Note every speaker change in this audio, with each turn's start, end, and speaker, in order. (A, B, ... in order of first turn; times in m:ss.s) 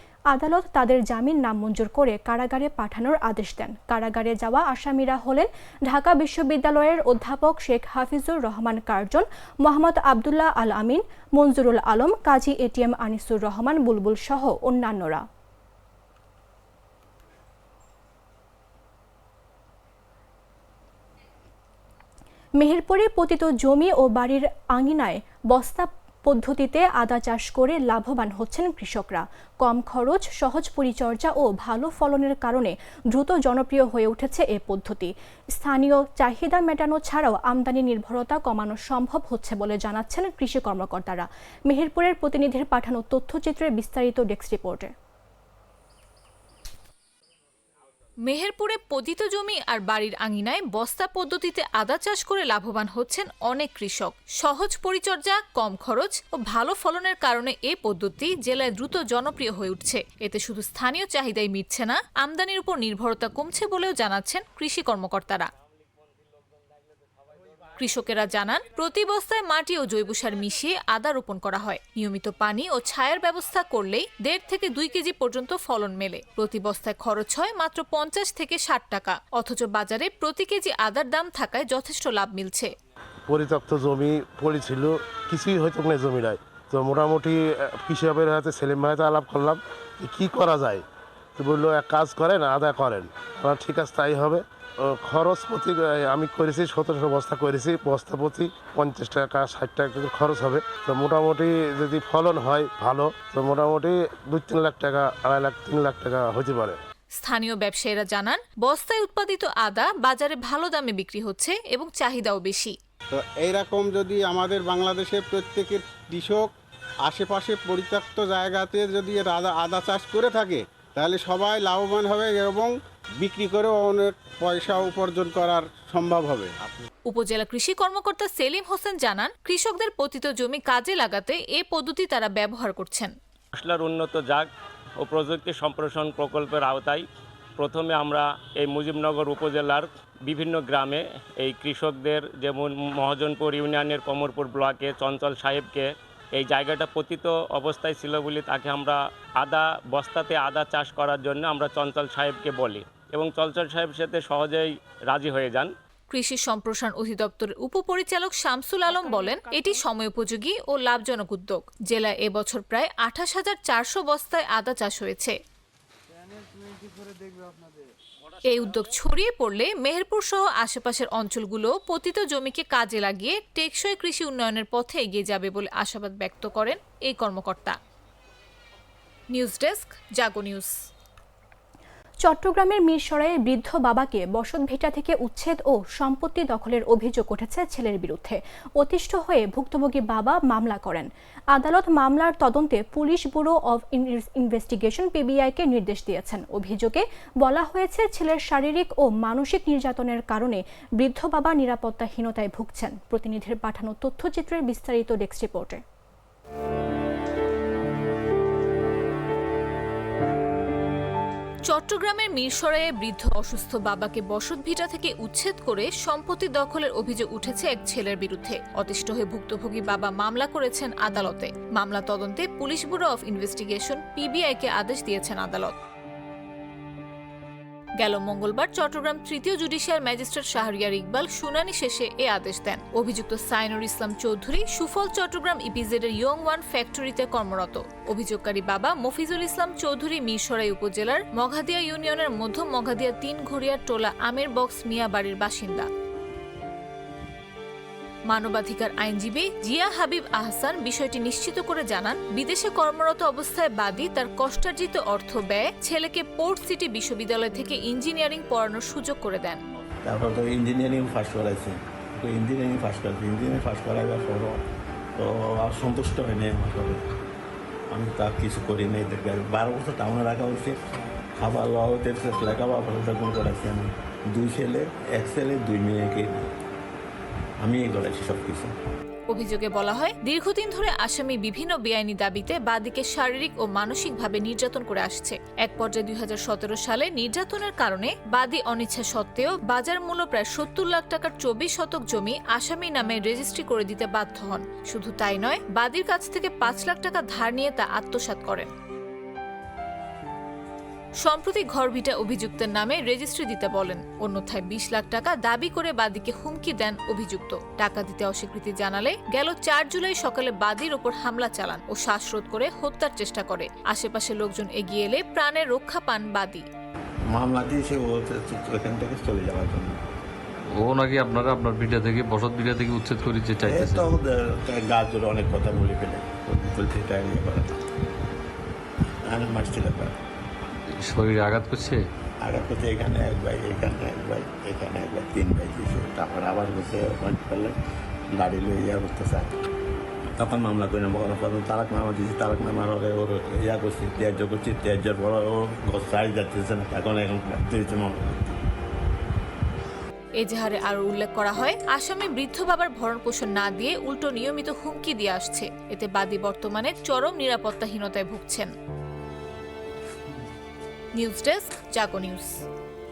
0:00.3-0:15.3 A
0:22.6-0:44.9 A
0:48.2-1:05.5 B
1:07.8-1:22.8 B
1:23.3-1:30.8 C
1:31.4-1:46.8 C
1:47.2-1:52.8 B
1:53.1-1:56.5 D
1:57.1-2:06.6 D
2:07.1-2:13.2 B
2:13.6-2:17.1 E
2:17.6-2:35.7 E
2:36.1-2:45.4 B
2:48.4-2:57.8 B
2:59.3-3:00.7 B
3:02.2-3:25.8 A
3:31.7-3:45.8 B
3:48.0-4:05.9 B
4:08.3-4:19.6 B
4:20.0-4:24.6 F
4:25.2-4:27.0 F
4:27.9-4:30.8 F
4:31.4-4:36.5 F
4:37.6-4:38.7 F
4:39.3-4:58.7 B
5:01.2-5:16.7 B
5:17.3-5:20.0 F
5:20.8-5:24.1 G
5:23.6-5:27.8 F
5:29.3-5:30.2 F
5:30.9-5:32.0 G
5:32.4-5:37.8 F
5:38.3-5:39.6 F
5:40.4-5:48.4 F
5:50.4-5:58.7 B
6:01.2-6:02.6 B